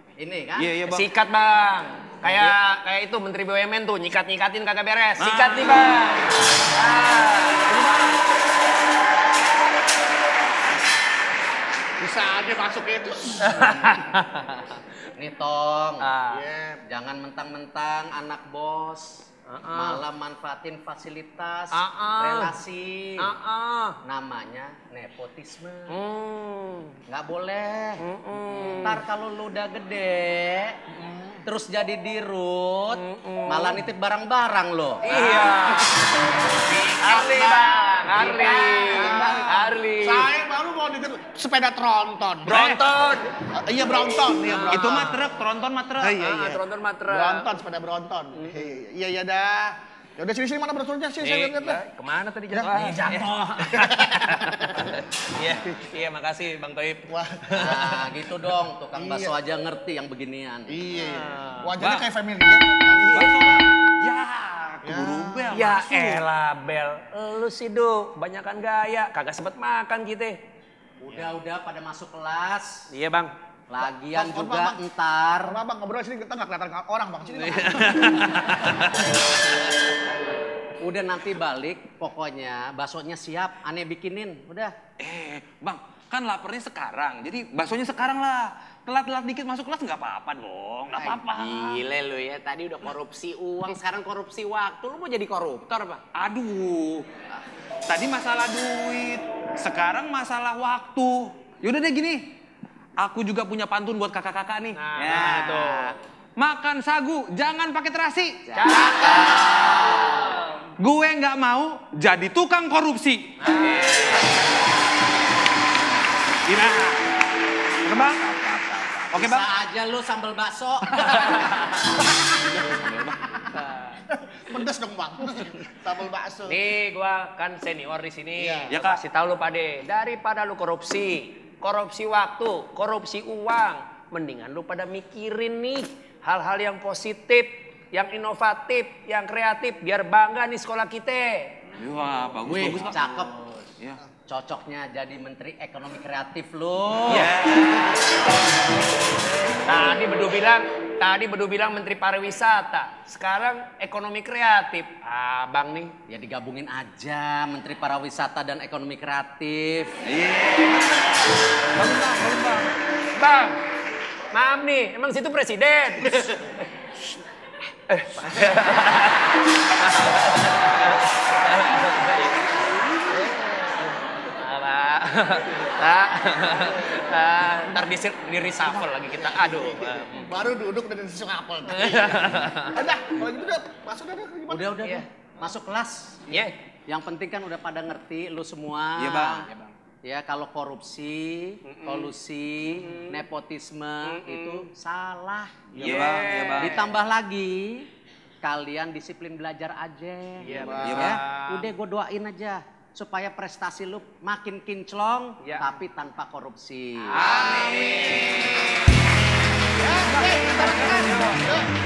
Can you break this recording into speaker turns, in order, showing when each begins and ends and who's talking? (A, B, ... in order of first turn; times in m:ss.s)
0:00.2-0:00.8 A
0:00.6-0:01.1 B
0:00.8-0:08.0 C
0:02.2-0:02.5 B
0:05.2-0:06.3 B
0:07.7-0:08.2 B
0:12.0-0:14.0 D
0:13.4-0:14.8 C
0:15.2-0:16.1 A
0:16.0-0:16.4 C
0:16.3-0:16.8 D
0:16.8-0:23.3 A
0:19.5-0:20.0 C
0:21.7-0:22.6 C
0:23.2-0:24.0 C
0:24.0-0:26.0 A
0:25.9-0:27.0 C
0:27.1-0:28.0 A
0:28.0-0:29.0 C
0:28.8-0:30.8 A
0:30.9-0:31.4 D
0:31.4-0:35.2 A
0:33.0-0:33.9 C
0:35.0-0:36.0 C
0:35.2-0:35.6 B
0:36.7-0:42.6 D
0:37.0-0:40.3 C
0:38.8-0:39.6 B
0:42.5-0:43.3 C
0:42.5-0:42.8 B
0:43.6-0:45.2 D
0:44.5-0:45.0 C
0:44.7-0:46.2 B
0:46.0-0:51.8 D
0:46.2-0:47.5 C
0:48.4-0:48.7 C
0:51.2-0:58.1 C
0:52.5-0:53.0 D
0:52.8-0:53.3 B
0:53.8-0:54.7 D
0:57.1-0:57.6 D
0:57.6-1:00.8 A
0:58.9-0:59.4 D
1:00.7-1:03.0 D
1:01.0-1:01.7 C
1:01.8-1:02.1 B
1:02.9-1:03.3 C
1:03.0-1:06.2 B
1:04.8-1:05.6 D
1:05.5-1:10.4 C
1:11.0-1:12.9 A
1:12.9-1:13.3 C
1:13.7-1:15.6 A
1:14.1-1:14.8 D
1:15.5-1:18.2 D
1:17.4-1:19.4 C
1:20.8-1:24.8 A
1:25.0-1:31.9 B
1:31.3-1:36.0 E
1:36.2-1:37.1 B
1:37.9-1:42.2 B
1:43.0-1:49.8 B
1:44.8-1:46.0 C
1:48.6-1:50.6 C
1:50.8-1:53.3 B
1:53.4-1:54.4 C
1:56.5-1:57.0 B
1:57.8-1:59.6 B
1:59.0-2:01.7 A
2:01.0-2:01.2 B
2:01.2-2:01.8 C
2:02.2-2:03.2 B
2:03.5-2:04.0 C
2:04.1-2:06.6 D
2:06.5-2:21.5 C
2:08.4-2:08.7 D
2:08.7-2:09.0 B
2:21.8-2:24.0 B
2:22.5-2:23.7 A
2:24.3-2:27.3 A
2:27.1-2:28.0 B
2:29.7-2:35.9 C
2:36.1-2:40.0 A
2:40.0-2:41.2 B
2:41.8-2:42.7 B
2:43.2-2:43.6 C
2:44.3-2:46.5 C
2:47.9-2:52.7 C
2:53.1-2:54.0 D
2:54.2-3:00.3 C
2:56.6-2:57.9 D
2:58.6-3:04.7 D
3:01.7-3:02.8 C
3:04.5-3:09.5 A
3:09.0-3:09.5 B
3:10.0-3:15.9 A
3:11.6-3:12.1 C
3:12.7-3:13.2 C
3:14.1-3:14.6 C
3:15.8-3:16.2 D
3:15.8-3:16.9 B
3:15.8-3:16.9 C
3:16.6-3:17.9 A
3:18.4-3:27.2 A
3:20.4-3:21.7 C
3:20.5-3:20.9 D
3:20.8-3:21.2 B
3:25.4-3:25.7 C
3:27.1-3:28.8 C
3:27.2-3:28.4 D
3:27.3-3:27.8 B
3:29.8-3:31.7 D
3:30.1-3:31.5 B
3:30.8-3:31.5 C